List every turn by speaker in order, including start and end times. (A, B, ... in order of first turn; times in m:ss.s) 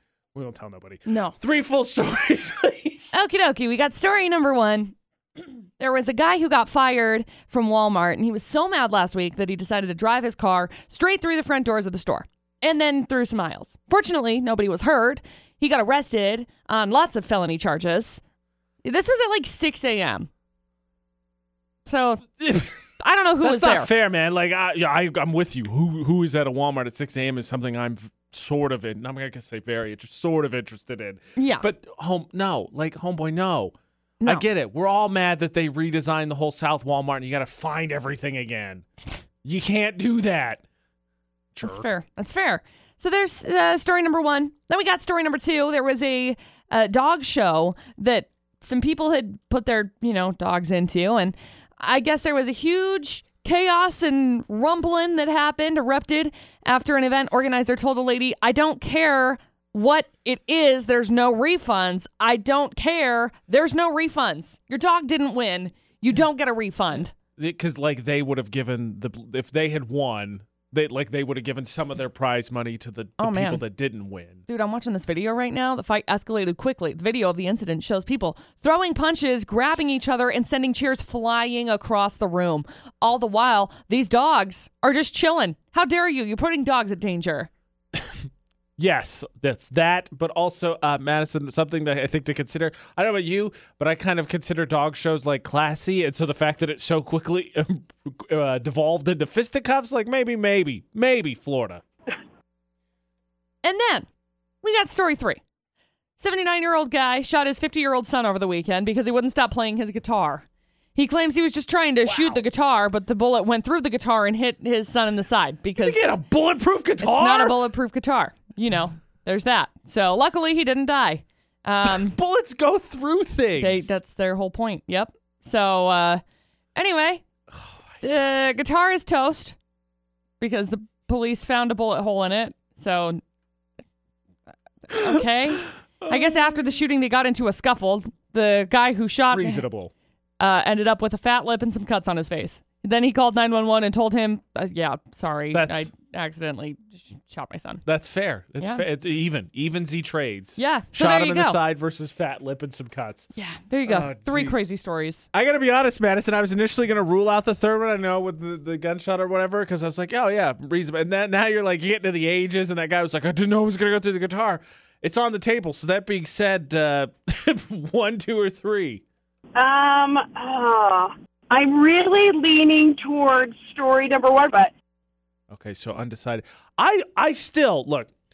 0:00.3-0:03.1 A
0:01.1-0:01.4 B
0:03.1-0:05.0 B
0:05.8-0:18.2 B
0:18.8-0:20.3 B
0:21.8-0:23.9 B
0:22.4-0:22.7 A
0:23.4-0:33.7 A
0:31.4-0:31.6 B
0:34.2-0:38.8 A
0:39.4-0:40.6 A
0:41.5-0:41.9 A
0:41.6-1:07.1 B
1:07.4-1:14.4 A
1:13.2-1:13.6 B
1:14.5-1:27.5 B
1:28.0-1:28.2 A
1:28.8-1:41.8 A
1:43.6-1:44.1 B
1:44.6-1:45.4 B
1:46.2-1:56.2 B
1:55.8-1:57.6 A
1:57.0-2:02.2 B
2:01.8-2:04.0 A
2:03.6-2:06.2 B
2:06.8-2:07.2 B
2:07.5-2:08.0 A
2:08.0-2:09.6 B
2:10.4-2:13.2 B
2:14.9-2:19.6 B
2:16.0-2:16.3 A
2:19.3-2:19.9 A
2:20.4-2:27.8 B
2:25.5-2:25.9 A
2:27.8-2:33.3 A
2:30.6-2:31.6 B
2:33.3-2:35.3 B
2:33.8-2:34.6 A
2:35.3-2:49.0 A
2:49.6-2:54.7 C
2:55.5-2:58.1 A